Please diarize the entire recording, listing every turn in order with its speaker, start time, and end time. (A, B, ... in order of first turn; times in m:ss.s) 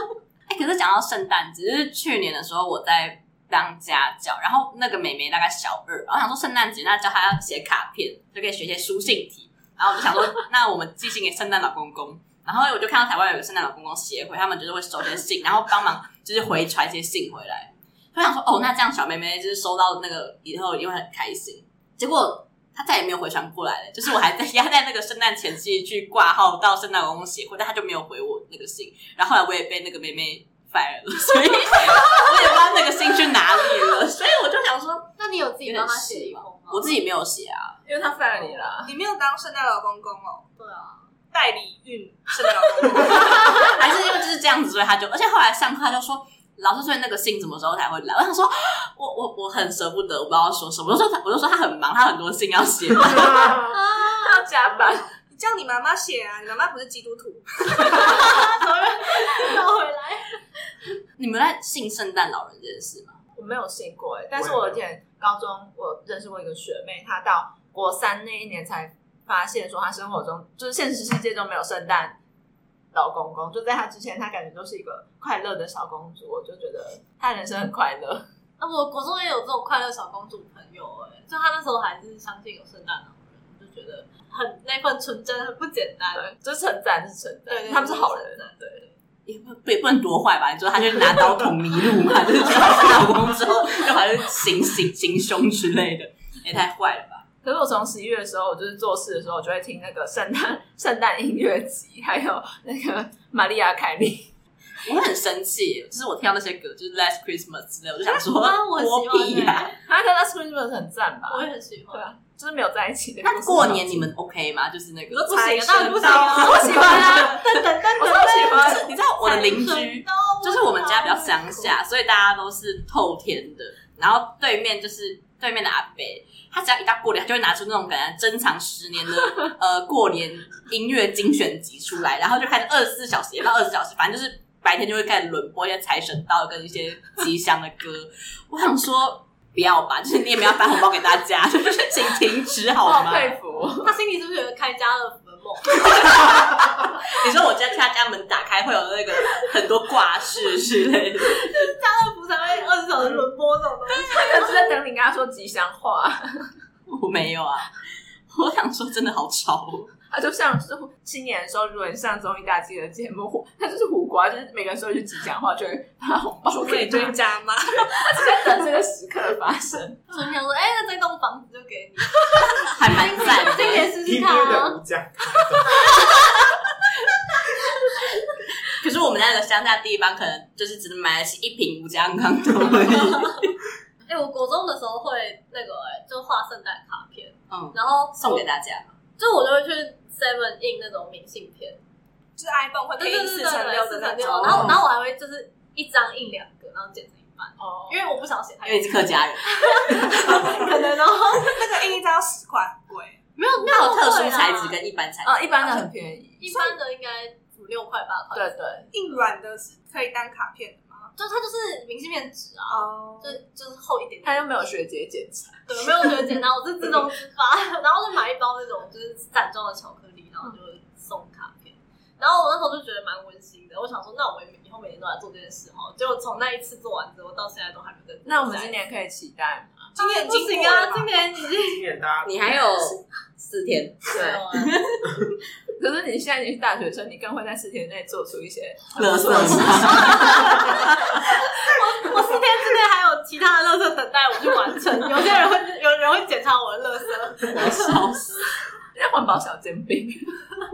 0:00.5-0:35.1 A
0:35.2-0:37.0 B
0:35.6-0:37.8 A
0:37.8-0:38.9 C
0:38.8-0:40.5 D
0:40.6-0:41.1 B
0:41.3-0:43.7 D
0:43.0-0:53.3 A
0:53.0-0:55.1 C
0:53.7-0:54.5 B
0:54.8-0:58.4 D
0:57.7-1:00.4 B
1:01.2-1:03.2 A
1:03.3-1:12.2 C
1:04.3-1:04.8 E
1:12.9-1:18.2 C
1:18.6-1:26.2 B
1:26.1-1:28.5 C
1:27.5-1:28.9 B
1:29.2-1:37.2 A
1:37.4-1:44.3 C
1:44.8-1:49.7 A
1:48.0-1:49.8 B
1:49.8-1:54.1 C
1:51.3-1:52.1 B
1:53.2-2:23.4 A
1:55.1-2:01.7 B
1:56.0-1:57.4 C
1:58.0-1:58.9 C
2:22.8-2:24.0 C
2:23.8-2:26.5 B
2:25.9-2:31.5 A
2:31.3-2:34.7 B
2:33.9-2:36.5 C
2:36.9-2:37.7 A
2:38.3-2:39.9 A
2:40.1-2:47.2 C
2:46.5-2:48.4 D
2:47.8-2:50.0 C
2:50.1-2:54.8 B
2:52.6-2:53.9 A
2:53.7-2:56.2 E
2:55.7-2:56.5 B
2:58.6-3:03.5 A
3:02.9-3:03.3 B
3:04.0-3:08.4 B
3:07.5-3:08.9 A
3:09.2-3:11.8 B
3:12.4-3:14.8 D
3:13.0-3:21.6 B
3:14.4-3:14.8 A
3:17.6-3:18.1 C
3:18.6-3:20.0 A
3:21.3-3:23.2 D
3:23.4-3:24.8 B
3:23.6-3:25.8 A
3:25.2-3:26.4 C
3:26.4-3:28.5 B
3:26.4-3:26.7 D
3:28.3-3:28.9 C
3:28.9-3:31.1 D
3:31.2-3:34.5 B
3:32.7-3:33.3 D
3:34.2-3:36.4 C
3:35.7-3:48.8 B
3:48.2-3:49.9 C
3:50.0-3:51.1 D
3:50.0-3:51.8 B
3:51.5-3:52.3 E
3:52.2-3:54.0 A
3:54.1-3:54.8 B
3:54.1-3:54.4 C
3:55.8-4:00.8 C
3:59.0-4:01.1 A
3:59.7-4:08.0 B
4:07.5-4:08.4 A
4:08.9-4:10.6 C